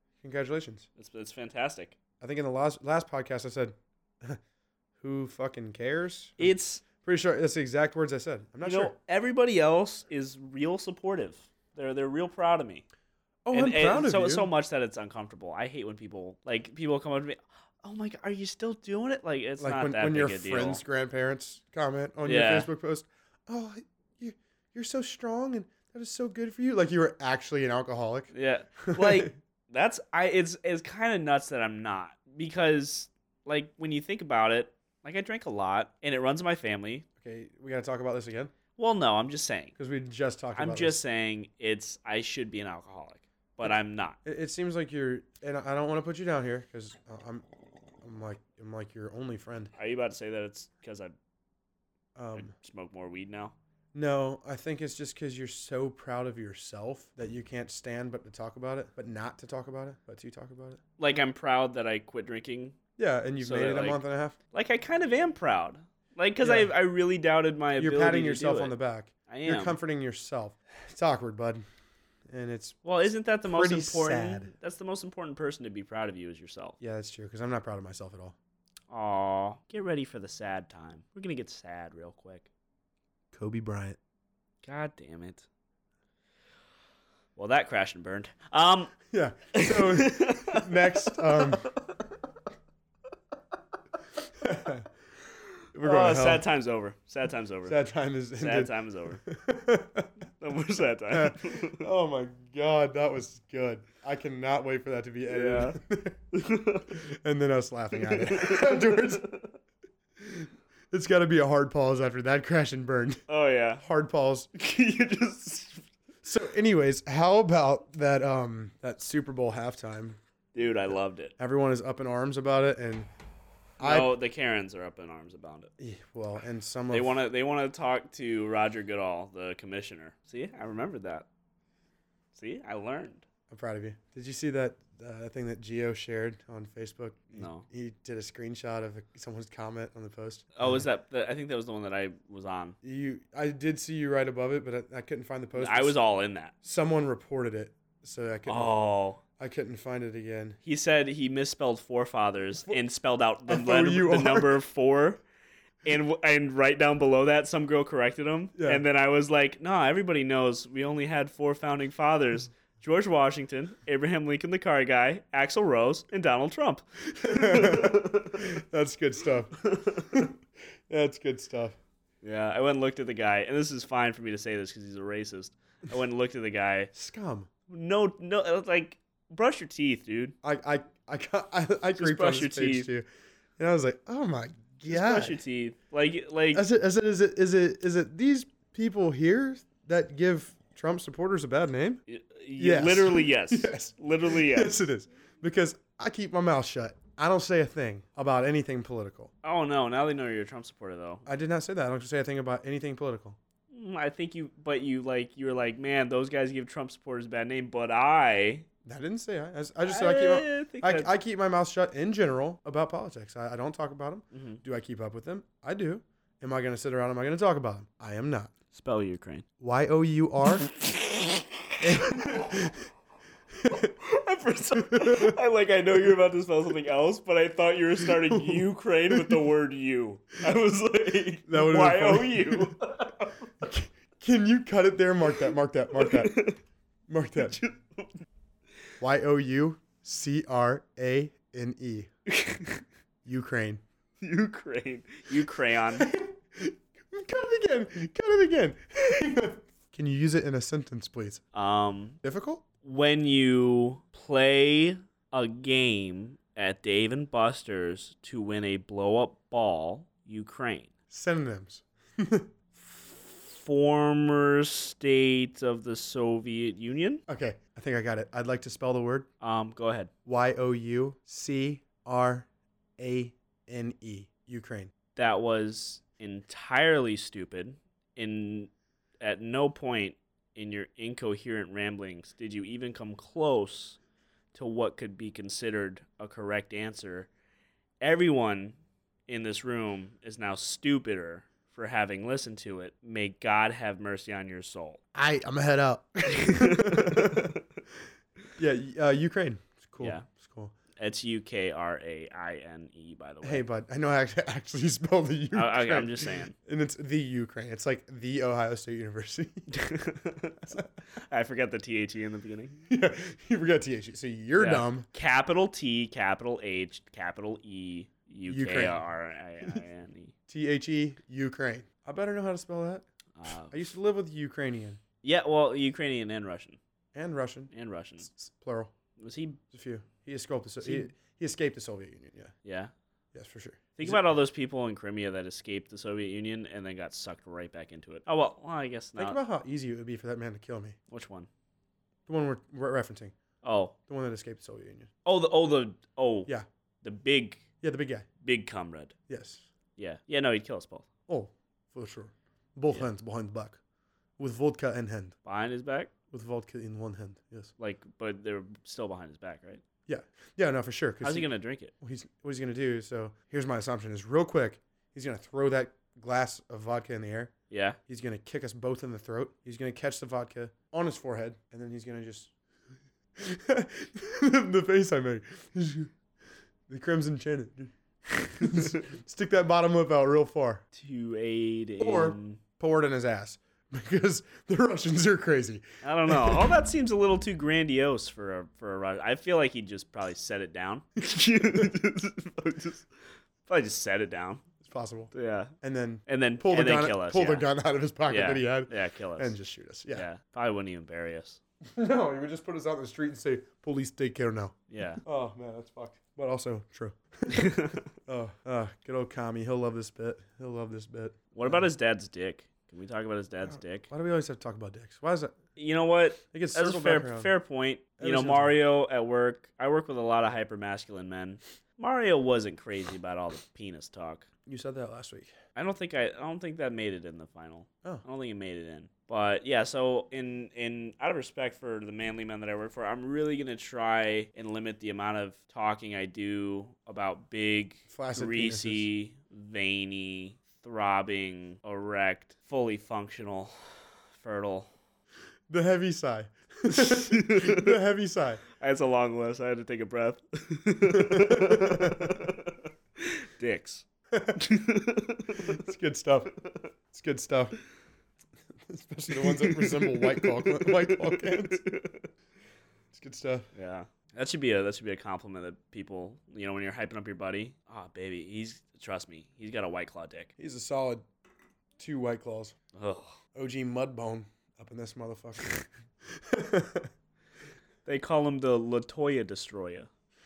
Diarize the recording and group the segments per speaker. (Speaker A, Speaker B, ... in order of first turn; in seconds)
Speaker A: 0.2-0.8, 2.2-4.4, 5.0-8.9, 13.4-14.5, 19.6-28.3, 28.8-29.3, 37.2-38.5, 39.8-41.0, 44.2-47.4, 48.0-49.7, 52.1-52.5, 53.9-60.8, 63.0-64.3, 66.4-66.7, 67.8-71.6, 72.3-72.8, 73.4-74.5, 76.8-78.3, 83.3-84.0, 89.1-91.7, 94.4-94.9, 95.7-96.4, 97.7-98.7, 99.2-100.1, 101.1-106.2, 107.0-109.3, 110.2-113.2, 113.8-114.5, 116.2-120.2, 121.4-123.1, 123.8-124.1, 125.8-127.2, 133.5-140.4, 142.8-146.0, 146.6-148.8, 149.4-150.6, 153.5-154.6, 158.5-158.8, 167.2-170.3, 170.9-171.8, 176.9-177.5, 180.4-183.1, 183.6-185.4, 186.5-192.0, 192.6-199.3, 201.2-203.4, 208.8-218.5, 219.6-220.7, 221.8-222.8, 223.6-223.9, 224.8-225.3, 228.2-229.4, 231.5-232.8, 233.6-236.4, 237.1-237.6, 239.0-242.1, 243.2-243.8, 245.9-251.4, 252.2-252.6, 261.1-262.5, 267.3-269.3, 270.2-272.5, 273.0-274.9, 295.1-297.6, 298.6-300.7, 303.4-309.7, 312.9-315.1, 318.5-319.0, 320.5-323.0, 323.7-325.0, 327.1-328.9, 329.7-332.5, 333.3-334.3, 339.2-341.0, 342.3-343.3, 344.1-345.1, 347.8-348.3, 349.3-349.6, 351.3-353.8, 354.4-355.4, 356.3-357.7, 360.1-367.5, 368.1-372.5, 373.4-376.1, 376.9-380.8, 382.0-386.6, 394.8-400.3, 401.9-411.8, 414.1-415.6, 416.5-417.5, 418.2-418.8, 424.6-425.5, 438.1-439.1, 445.7-448.6, 451.1-452.4, 454.3-454.6, 455.6-456.5, 457.1-457.8, 458.9-461.8, 463.1-463.6, 470.6-471.2, 472.0-472.7, 473.5-477.1
Speaker B: 1.0-2.0, 6.4-6.8, 8.6-12.8, 13.5-20.8, 22.2-22.7, 28.3-37.0, 38.8-39.7, 40.5-44.2, 49.8-51.1, 52.3-53.5, 61.0-62.8, 63.4-68.8, 69.3-69.8, 72.8-76.8, 78.9-82.5, 84.6-85.5, 87.3-88.9, 89.5-91.7, 95.8-97.8, 98.4-99.2, 100.4-101.9, 105.3-105.8, 106.3-107.0, 108.0-109.5, 113.3-113.8, 114.5-115.8, 120.5-121.3, 123.8-125.7, 126.9-131.2, 132.3-133.2, 137.3-137.7, 140.6-142.8, 145.5-146.5, 148.4-149.2, 150.6-155.2, 155.8-168.4, 169.7-170.2, 172.2-176.9, 177.7-180.3, 182.0-182.9, 184.8-186.6, 192.1-194.8, 199.4-201.2, 203.7-208.7, 209.8-211.1, 214.3-214.6, 218.7-219.4, 220.7-222.7, 223.7-233.5, 235.9-236.6, 237.4-238.2, 242.3-242.8, 244.2-246.1, 251.5-252.2, 252.8-260.9, 262.9-267.2, 269.4-270.1, 275.1-284.0, 284.5-287.3, 288.0-288.8, 289.3-295.0, 296.3-297.6, 300.0-300.2, 301.0-303.6, 305.5-306.5, 309.7-312.8, 314.6-320.3, 323.4-323.7, 325.2-326.8, 327.7-328.3, 329.2-329.6, 330.8-331.1, 332.6-332.9, 334.0-339.4, 341.1-341.5, 343.6-343.9, 345.2-347.6, 348.4-349.1, 350.0-351.1, 355.4-356.1, 357.8-359.8, 361.2-361.9, 367.7-368.0, 380.9-382.6, 386.0-393.1, 393.6-394.6, 395.3-395.7, 396.3-397.7, 398.3-399.5, 400.1-401.6, 404.9-405.2, 407.5-408.0, 411.5-414.1, 415.8-424.5, 425.7-443.7, 444.4-444.9, 446.9-447.9, 448.8-454.0, 454.6-455.8, 459.3-462.3, 463.7-470.5, 472.9-473.4, 478.0-480.1